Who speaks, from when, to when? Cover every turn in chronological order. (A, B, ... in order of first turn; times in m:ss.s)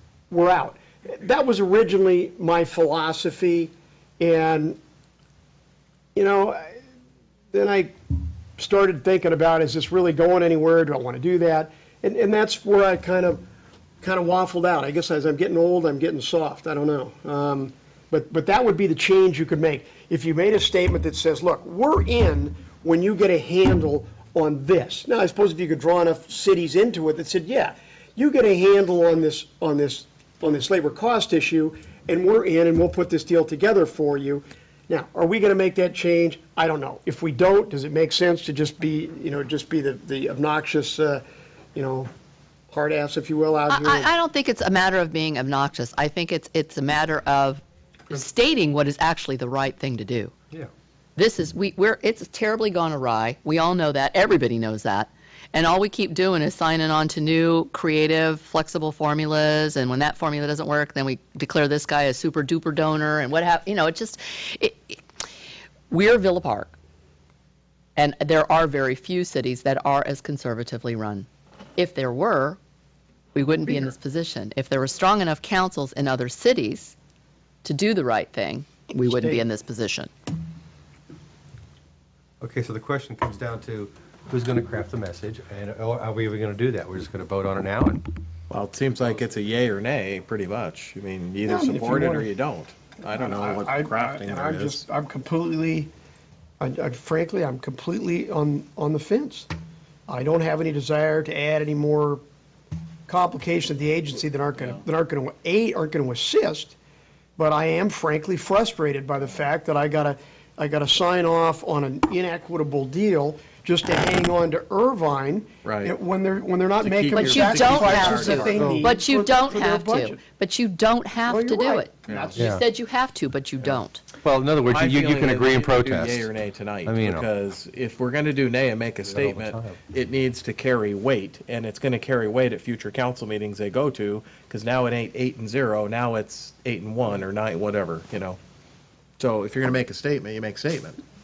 0:00.3-0:04.8 A
0:06.1-0:06.7 A
0:07.5-0:07.9 A
0:08.6-0:13.4 A
0:14.0-0:41.2 A
0:41.7-0:42.1 A
0:42.7-0:44.1 A
0:43.7-0:50.3 B
0:51.2-1:05.0 B
1:05.9-1:06.7 B
1:08.0-1:12.6 B
1:13.3-1:16.9 B
1:17.6-1:20.1 B
1:19.1-1:19.4 A
1:22.4-1:28.0 C
1:28.5-1:34.8 D
1:31.4-1:32.3 A
1:33.1-1:35.9 A
1:36.6-1:39.5 A
1:40.1-1:42.2 A
1:43.1-1:46.8 A
1:47.4-2:00.2 A
1:55.6-1:55.9 D
1:56.8-1:58.6 D
1:57.1-2:04.0 B
1:58.5-1:58.9 C
2:01.3-2:02.5 A
2:02.1-2:02.4 D
2:02.4-2:02.6 C
2:04.2-2:06.3 C
2:04.7-2:18.4 D
2:06.8-2:07.2 C
2:09.0-2:09.8 C
2:19.2-2:21.0 D